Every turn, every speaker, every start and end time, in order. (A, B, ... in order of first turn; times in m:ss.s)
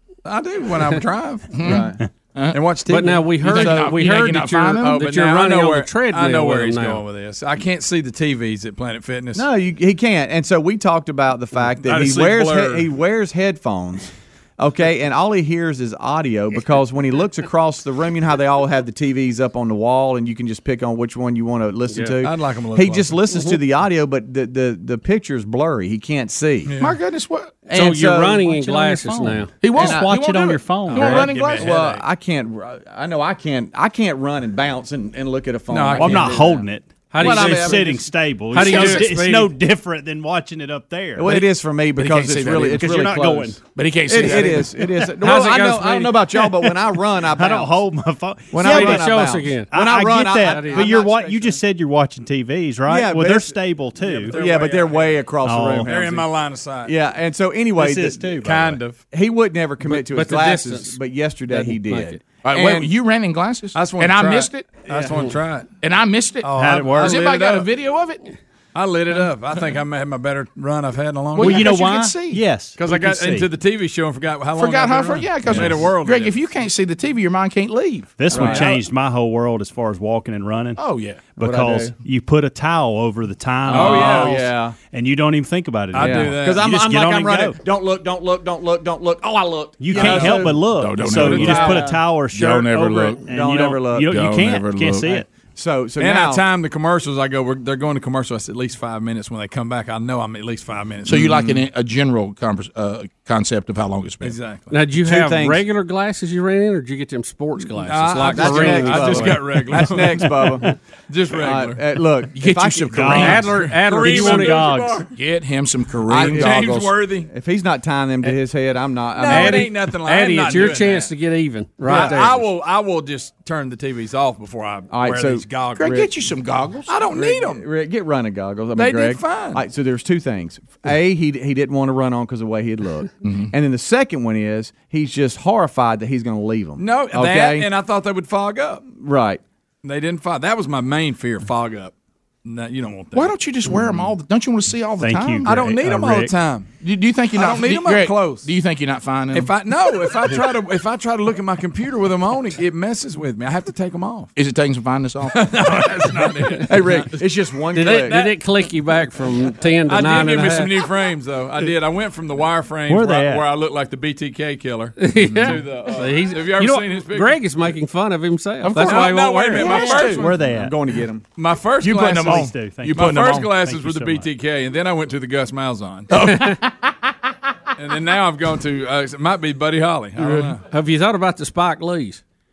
0:00.2-0:01.7 A
0:01.5-0:02.6 B
0:01.6-0:02.0 C
0:02.5-0:04.0 A
0:02.9-0:07.0 D
0:03.4-0:05.0 B
0:04.8-0:09.5 A
0:09.4-0:26.7 C
0:11.7-0:12.9 A
0:22.2-0:23.2 A
0:26.7-0:27.0 A
0:26.8-0:27.6 B
0:27.7-0:28.5 C
0:27.7-0:29.5 D
0:28.4-0:31.9 E
0:29.6-0:31.7 B
0:29.8-0:30.2 C
0:30.9-0:36.7 C
0:31.0-0:31.8 A
0:35.7-0:36.6 A
0:36.0-0:41.4 E
0:37.1-0:38.0 D
0:37.2-0:38.0 C
0:38.5-0:39.5 D
0:41.2-0:47.8 C
0:42.0-0:42.9 B
0:42.6-0:43.6 E
0:43.8-0:44.7 B
0:45.2-0:46.7 D
0:47.3-0:54.4 E
0:48.5-0:51.6 C
0:48.6-0:49.7 D
0:50.3-0:51.0 D
0:52.9-0:53.6 C
0:54.0-0:55.3 A
0:54.3-0:58.5 C
0:55.4-0:55.9 E
0:55.9-0:56.9 A
0:57.8-0:58.8 E
0:58.4-0:59.0 A
0:59.1-1:02.9 C
0:59.8-1:01.0 D
1:01.5-1:02.2 D
1:02.4-1:04.9 B
1:03.7-1:05.8 A
1:05.8-1:08.2 B
1:06.4-1:07.7 A
1:06.5-1:07.2 E
1:08.7-1:11.8 A
1:11.4-1:12.5 B
1:11.4-1:13.5 E
1:12.8-1:16.4 A
1:14.6-1:18.6 B
1:18.2-1:20.8 E
1:18.3-1:18.7 C
1:18.4-1:18.6 A
1:20.8-1:21.3 B
1:21.4-1:27.6 E
1:21.4-1:21.9 C
1:23.7-1:24.8 C
1:23.7-1:24.4 A
1:25.9-1:27.4 A
1:26.0-1:32.0 C
1:29.8-1:35.3 E
1:30.0-1:30.3 A
1:30.0-1:33.2 B
1:31.0-1:31.9 A
1:33.2-1:34.2 C
1:34.1-1:35.2 B
1:35.5-1:36.4 C
1:36.0-1:41.6 A
1:41.1-1:44.4 B
1:44.2-1:44.8 A
1:44.7-1:49.5 D
1:45.0-1:45.6 C
1:47.8-1:50.4 A
1:48.3-1:50.7 C
1:50.3-1:50.7 E
1:51.1-1:51.8 A
1:51.3-1:53.4 C
1:52.3-1:53.5 B
1:52.9-1:55.1 E
1:53.1-1:54.8 D
1:53.2-1:55.1 A
1:55.2-1:56.9 B
1:56.1-1:57.3 A
1:56.1-1:59.7 C
1:59.2-2:01.1 A
1:59.3-2:02.5 D
2:01.8-2:06.1 A
2:04.9-2:06.0 C
2:05.8-2:06.9 B
2:06.9-2:07.7 A
2:07.1-2:17.7 C
2:08.8-2:09.6 A
2:13.2-2:13.5 B
2:16.8-2:18.9 A
2:18.9-2:19.4 C
2:19.8-2:21.9 A
2:22.4-2:23.4 A
2:23.1-2:25.6 B
2:25.0-2:26.3 E
2:25.4-2:26.8 A
2:26.8-2:29.5 B
2:27.3-2:28.5 A
2:29.3-2:34.3 A
2:34.4-2:35.8 B
2:35.3-2:37.1 A
2:36.7-2:38.3 C
2:37.8-2:40.8 D
2:37.8-2:38.3 A
2:39.9-2:47.4 A
2:42.9-2:43.5 E
2:45.0-2:50.1 D
2:48.6-2:50.3 B
2:48.7-2:50.3 A
2:49.6-2:51.3 C
2:50.1-2:50.7 E
2:51.4-2:56.2 A
2:51.8-2:52.4 C
2:51.9-2:53.5 B
2:52.2-2:54.3 E
2:56.1-2:56.9 B
2:56.3-2:56.6 D
2:57.8-3:00.6 A
3:00.2-3:00.6 B
3:00.7-3:02.2 D